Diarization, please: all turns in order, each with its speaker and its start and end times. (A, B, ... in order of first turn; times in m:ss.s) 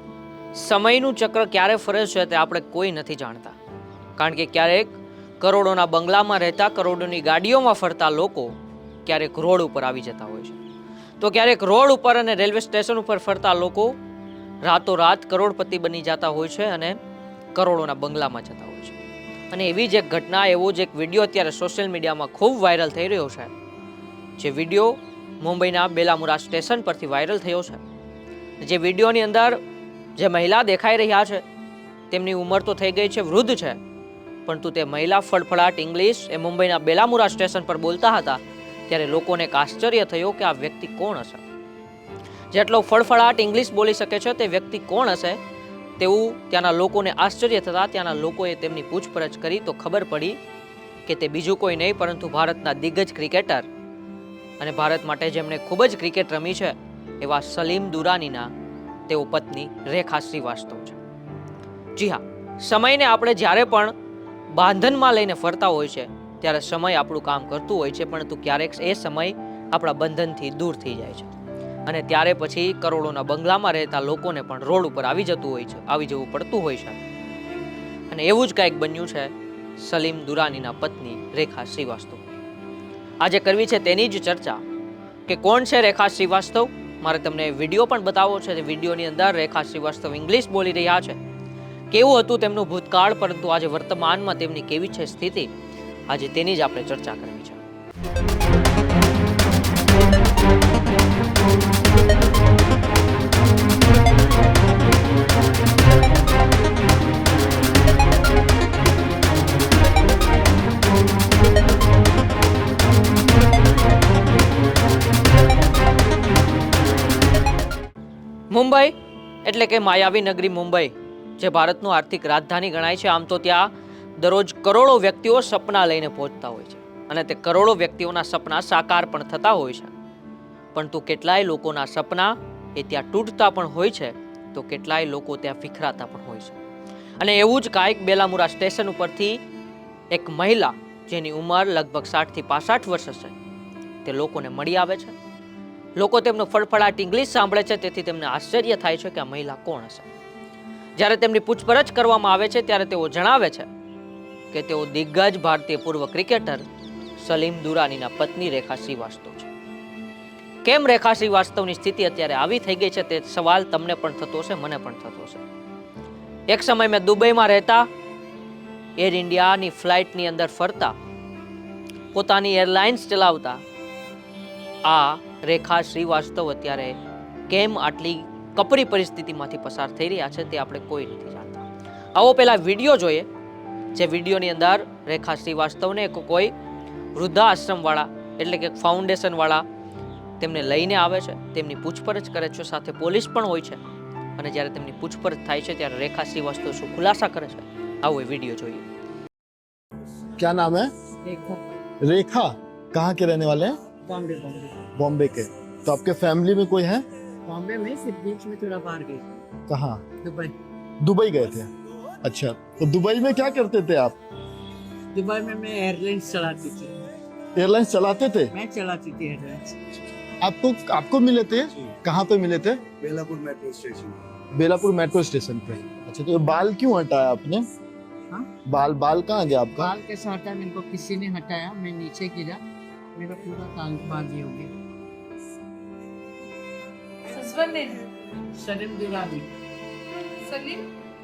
0:00.6-0:03.6 A
0:04.2-0:08.5 A
0:09.1-0:10.6 A
0:11.2-0:14.0 A
0:14.6-0:17.0 A
0:17.6-0:19.0 A
0:19.5-0:23.5 A
0:24.4-0:27.8 A
0:28.6-0:29.6 A
0:30.2-0:31.4 A
0:32.1-0:33.8 A
0:34.5-0:41.4 A
0:42.5-0:45.4 A
0:46.0-0:50.4 A
0:51.1-0:53.7 A
0:54.6-0:58.5 A
0:59.1-1:01.0 A
1:02.0-1:03.9 A
1:04.5-1:11.3 A
1:11.9-1:17.0 A
1:18.1-1:22.4 A
1:23.2-1:24.6 A
1:25.3-1:31.2 A
1:31.9-1:35.5 A
1:36.1-1:37.6 A
1:58.5-2:09.9 A
2:10.7-2:16.6 A
2:17.2-2:19.4 A
2:20.1-2:23.3 A
2:24.0-2:25.2 A
2:26.0-2:30.1 A
2:31.0-2:33.7 A
2:34.5-2:36.6 A
2:37.2-2:39.5 A
2:40.6-2:45.4 A
2:46.5-2:47.9 A
2:49.0-2:51.0 A
2:52.1-2:53.6 A
2:54.8-2:57.0 A
2:57.5-3:03.3 A
3:04.0-3:06.5 A
3:07.2-3:09.6 A
3:10.4-3:13.8 A
3:14.4-3:18.9 A
3:20.4-3:20.9 B
3:21.2-3:21.6 C
3:22.0-3:23.8 B
3:24.0-3:24.8 C
3:25.0-3:27.0 B
3:27.5-3:29.3 C
3:29.7-3:30.0 B
3:30.2-3:30.5 C
3:31.0-3:31.7 B
3:32.2-3:34.2 B
3:35.1-3:37.0 C
3:37.6-3:38.5 B
3:38.5-3:39.8 C
3:40.4-3:47.6 B
3:48.7-3:49.9 B
3:49.8-3:54.7 C
3:57.3-3:59.5 C
4:00.4-4:00.9 C